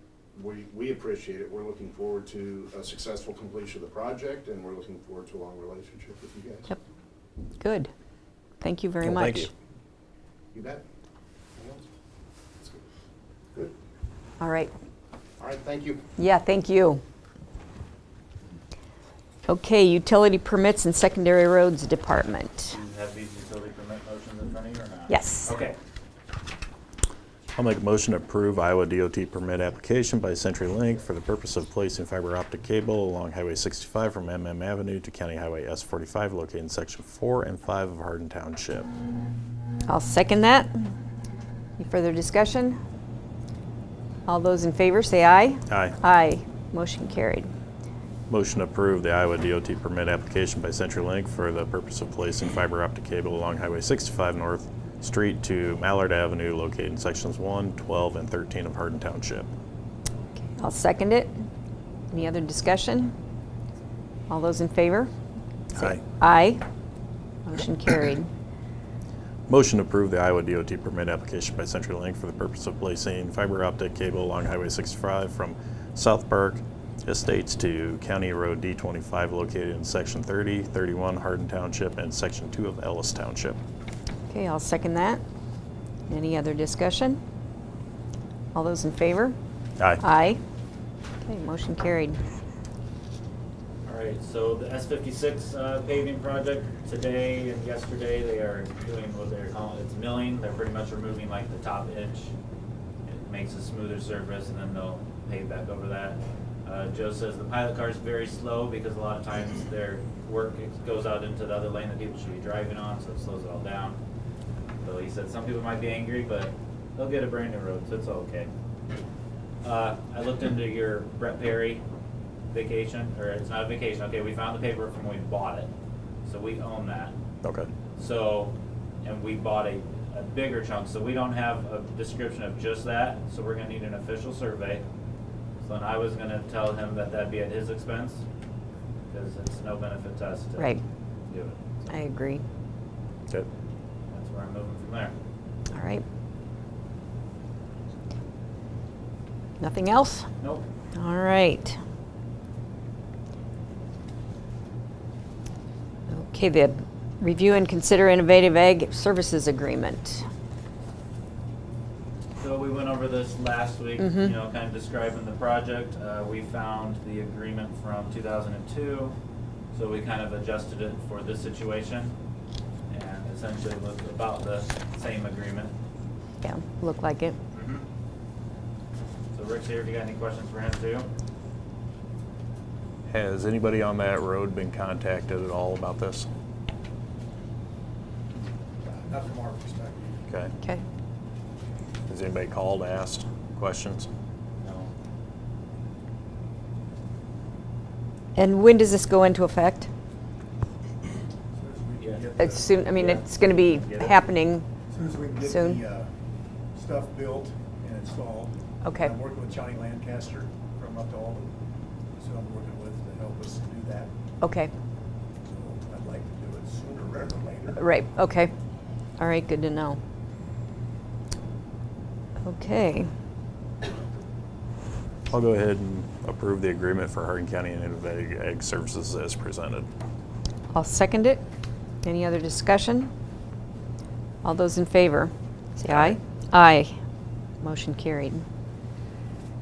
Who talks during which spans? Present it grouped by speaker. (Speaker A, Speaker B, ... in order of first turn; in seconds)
Speaker A: 0.3-6.8, 10.5-10.8, 11.6-11.9, 15.4-16.0
Speaker B: 7.6-7.9, 8.6-9.5, 14.4-14.7, 16.2-17.0, 19.4-22.8, 25.1-25.5, 39.9-40.7, 41.8-42.8, 44.3-47.5, 60.6-61.3, 62.1-63.1, 64.3-65.1, 65.7-66.6, 67.5-68.3, 84.3-85.2, 86.1-87.2, 88.5-89.3, 90.0-90.4, 91.2-92.2, 140.6-140.8, 141.9-142.4, 145.7-146.0, 149.6-150.3, 150.9-151.8, 156.1-160.2, 164.0-164.3, 176.4-177.4, 198.4-199.9, 202.4-204.7, 205.4-205.8, 208.8-209.2, 214.4-214.7, 217.8-218.5, 219.2-220.0, 222.4-223.1, 230.7-231.4, 232.0-233.1, 234.4-236.9, 237.6-238.4
Speaker C: 9.0-9.5, 27.5-38.9, 45.7-46.0, 48.3-59.5, 65.7-66.0, 69.5-83.6, 127.4-127.7, 183.1-186.3, 192.1-194.1, 225.3-229.9, 235.9-236.2
Speaker D: 22.7-25.8, 93.8-102.3, 103.1-114.0, 114.8-118.5, 119.6-121.8, 122.5-125.7, 126.2-127.1, 128.0-134.8, 135.6-138.2, 139.1-140.8, 141.3-141.9, 144.1-145.1, 150.4-150.7, 162.4-169.2, 169.7-172.1, 172.9-175.7, 177.5-177.8, 179.3-181.1, 194.6-194.9, 202.0-202.3, 202.9-204.2
Speaker E: 188.8-190.2, 201.5-202.9, 204.9-206.1, 206.7-211.5, 212.2-214.1, 215.4-217.9